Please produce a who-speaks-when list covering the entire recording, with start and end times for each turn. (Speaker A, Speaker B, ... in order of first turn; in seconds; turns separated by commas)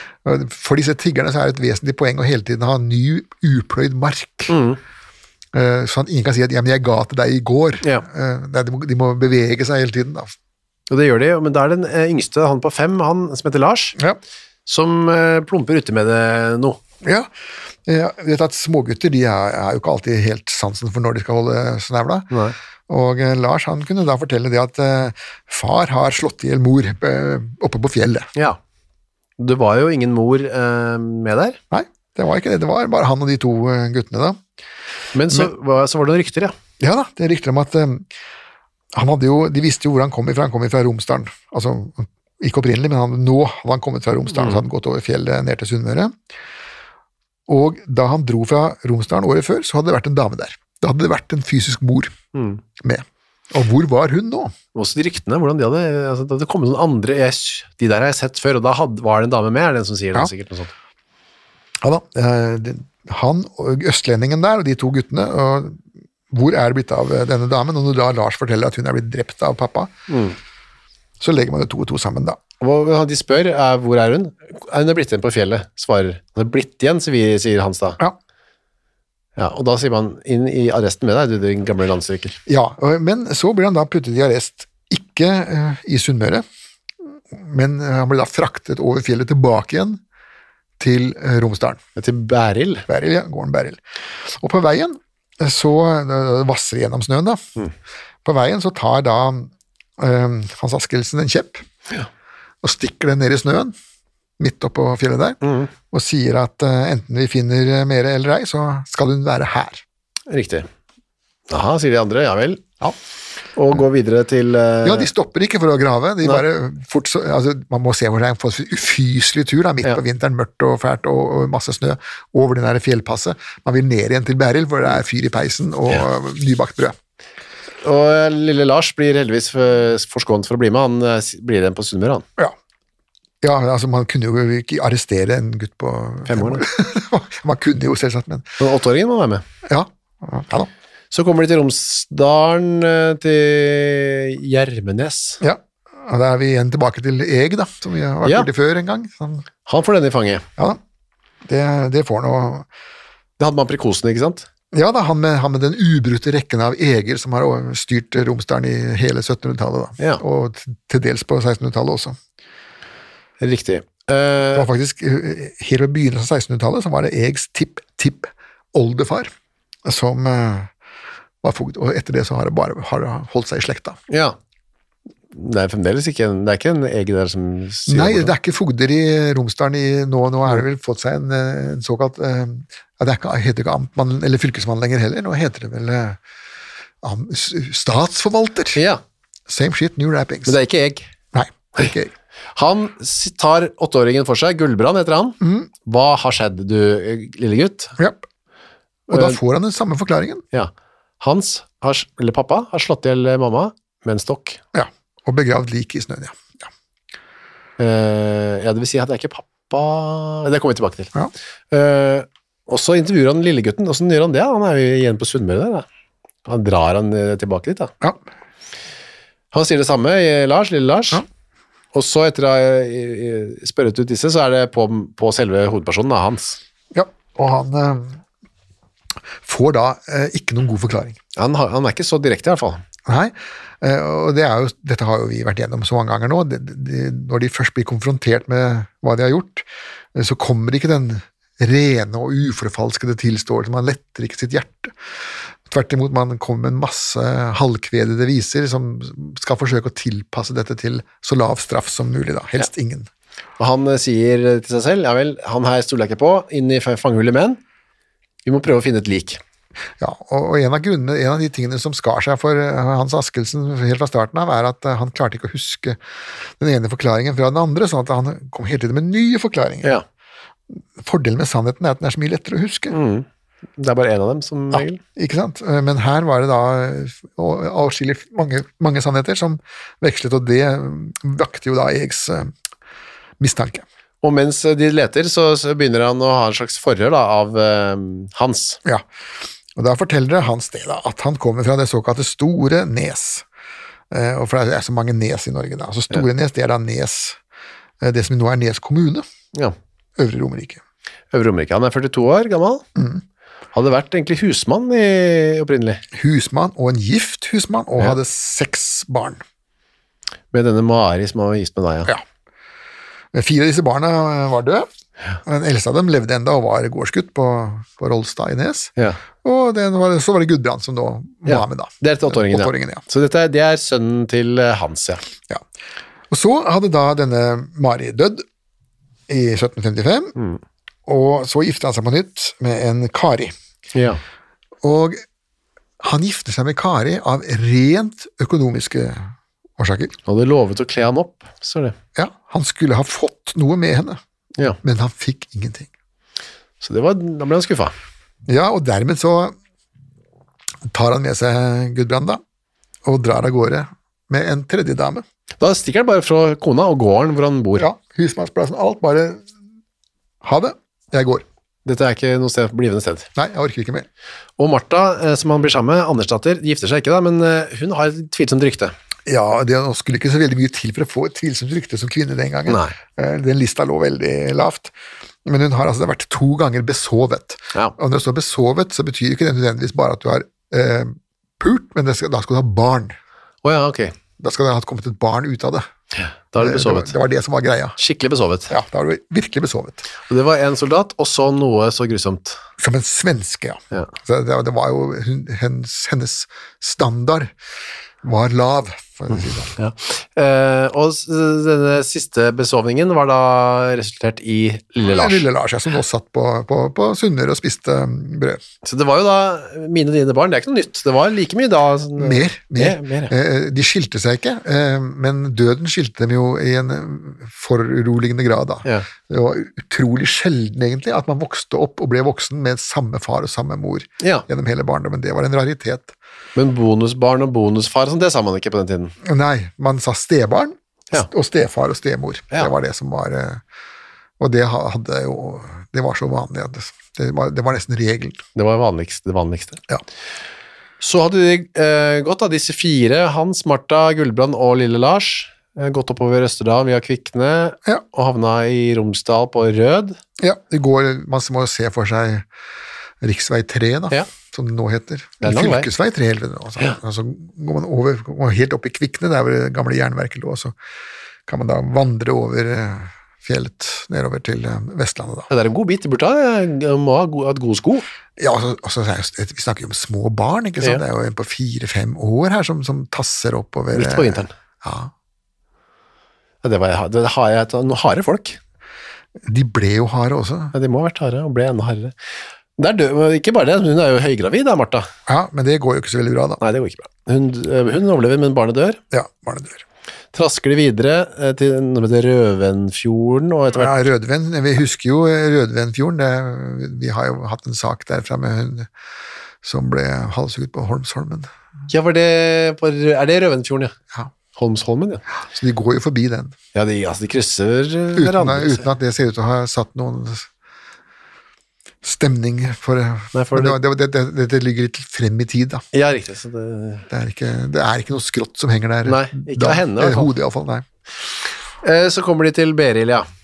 Speaker A: 0.2-4.5, Speaker B: 4.5-4.8, Speaker A: 5.5-10.3, Speaker B: 10.9-14.0, Speaker B: 14.7-16.8, Speaker A: 17.0-17.3, Speaker A: 17.9-22.3, Speaker A: 22.9-28.3, Speaker B: 29.4-31.6, Speaker A: 31.7-34.4, Speaker B: 35.1-36.5, Speaker A: 36.8-38.1, Speaker A: 38.9-46.1, Speaker B: 44.4-44.6, Speaker A: 47.5-52.1, Speaker B: 52.3-52.6, Speaker A: 52.8-54.5, Speaker B: 54.8-60.7, Speaker A: 61.8-69.9, Speaker B: 70.1-70.4, Speaker A: 71.2-72.4, Speaker B: 72.6-78.0, Speaker B: 79.4-82.4, Speaker A: 82.5-86.5, Speaker A: 87.3-90.0, Speaker A: 90.8-91.8, Speaker B: 92.0-92.9, Speaker A: 92.9-97.4, Speaker A: 98.2-101.7, Speaker A: 102.6-103.7, Speaker A: 104.4-105.4, Speaker B: 105.4-105.7, Speaker A: 105.9-109.8, Speaker B: 110.3-110.7, Speaker B: 111.5-112.7, Speaker B: 113.6-115.1, Speaker A: 114.8-127.0, Speaker B: 127.8-132.2, Speaker A: 133.4-138.6, Speaker B: 136.3-136.7, Speaker B: 138.6-139.4, Speaker A: 139.7-140.7, Speaker B: 141.1-145.4, Speaker A: 145.4-149.5, Speaker B: 149.7-150.5, Speaker A: 151.5-152.7, Speaker B: 153.4-154.5, Speaker A: 154.7-162.2, Speaker B: 163.4-164.7, Speaker A: 164.5-169.3, Speaker A: 169.9-170.7, Speaker A: 171.4-174.0, Speaker B: 174.1-174.4, Speaker B: 175.3-178.3, Speaker A: 177.9-186.2, Speaker A: 187.0-188.8, Speaker B: 188.8-189.0, Speaker A: 189.5-190.6, Speaker B: 190.5-191.1, Speaker A: 191.3-192.1, Speaker B: 192.6-198.0, Speaker A: 195.4-195.7, Speaker A: 198.0-198.2, Speaker A: 199.1-200.4, Speaker B: 199.1-199.4, Speaker B: 200.5-204.6, Speaker A: 204.7-206.7, Speaker B: 207.8-211.1, Speaker B: 211.7-215.8, Speaker B: 216.5-217.9, Speaker B: 219.5-221.2, Speaker B: 221.9-226.6, Speaker A: 226.9-228.2, Speaker A: 229.4-231.2, Speaker B: 231.4-232.8, Speaker A: 233.1-245.0, Speaker A: 245.7-253.1, Speaker B: 253.6-257.6, Speaker B: 258.5-259.4, Speaker A: 260.0-266.0, Speaker A: 266.6-270.0, Speaker A: 271.0-273.0, Speaker B: 272.9-273.2, Speaker B: 273.8-275.0, Speaker A: 274.7-282.5, Speaker A: 283.4-283.9, Speaker B: 284.2-288.8, Speaker A: 289.8-293.4, Speaker A: 294.1-297.4, Speaker A: 298.0-299.2, Speaker A: 300.2-300.8, Speaker B: 301.3-302.9, Speaker A: 303.0-303.2, Speaker B: 303.7-306.0, Speaker A: 306.1-309.4, Speaker B: 310.5-312.1, Speaker A: 313.3-314.9, Speaker A: 315.5-318.9, Speaker A: 319.4-323.0, Speaker B: 321.5-325.2, Speaker A: 326.3-328.4, Speaker A: 329.3-330.4, Speaker A: 331.1-333.5, Speaker B: 333.9-334.2, Speaker A: 334.8-335.2, Speaker A: 336.0-340.1, Speaker B: 340.3-342.0, Speaker A: 342.2-344.2, Speaker A: 344.8-345.9, Speaker B: 346.8-347.9, Speaker A: 348.5-349.6, Speaker A: 350.9-352.4, Speaker A: 353.1-355.2, Speaker B: 355.6-357.9, Speaker A: 357.8-359.4, Speaker A: 360.4-361.4, Speaker B: 361.9-363.3, Speaker A: 363.4-364.1, Speaker B: 364.6-368.9, Speaker A: 369.3-374.9, Speaker B: 372.7-372.9, Speaker A: 375.4-383.2, Speaker B: 383.6-384.1, Speaker A: 384.4-385.9, Speaker B: 386.2-387.2, Speaker A: 386.6-388.0, Speaker B: 388.0-388.7, Speaker A: 388.7-390.1, Speaker B: 390.3-392.6, Speaker A: 392.8-397.5, Speaker A: 398.2-399.7, Speaker B: 399.8-405.4, Speaker A: 405.0-408.6, Speaker B: 408.8-413.3, Speaker A: 412.2-426.1, Speaker B: 426.6-429.1, Speaker A: 429.2-433.6, Speaker A: 434.4-438.4, Speaker B: 438.6-439.8, Speaker B: 441.0-450.2, Speaker A: 450.4-452.5, Speaker A: 453.2-460.8, Speaker B: 455.4-455.9, Speaker A: 461.5-465.5, Speaker B: 465.5-468.1, Speaker A: 468.4-475.1, Speaker B: 473.9-474.5, Speaker B: 476.6-478.6, Speaker A: 479.4-480.7, Speaker B: 480.7-482.1, Speaker B: 482.8-485.1, Speaker A: 485.3-486.6, Speaker B: 486.6-489.0, Speaker A: 489.1-489.8, Speaker B: 490.3-494.0, Speaker A: 493.8-498.9, Speaker A: 499.6-501.5, Speaker B: 501.9-503.9, Speaker B: 504.6-505.2, Speaker A: 505.5-506.6, Speaker B: 506.8-508.9, Speaker A: 508.2-510.5, Speaker A: 512.0-515.9, Speaker B: 513.3-513.8, Speaker B: 515.9-517.1, Speaker A: 517.1-520.9, Speaker B: 519.0-520.3, Speaker B: 521.8-523.3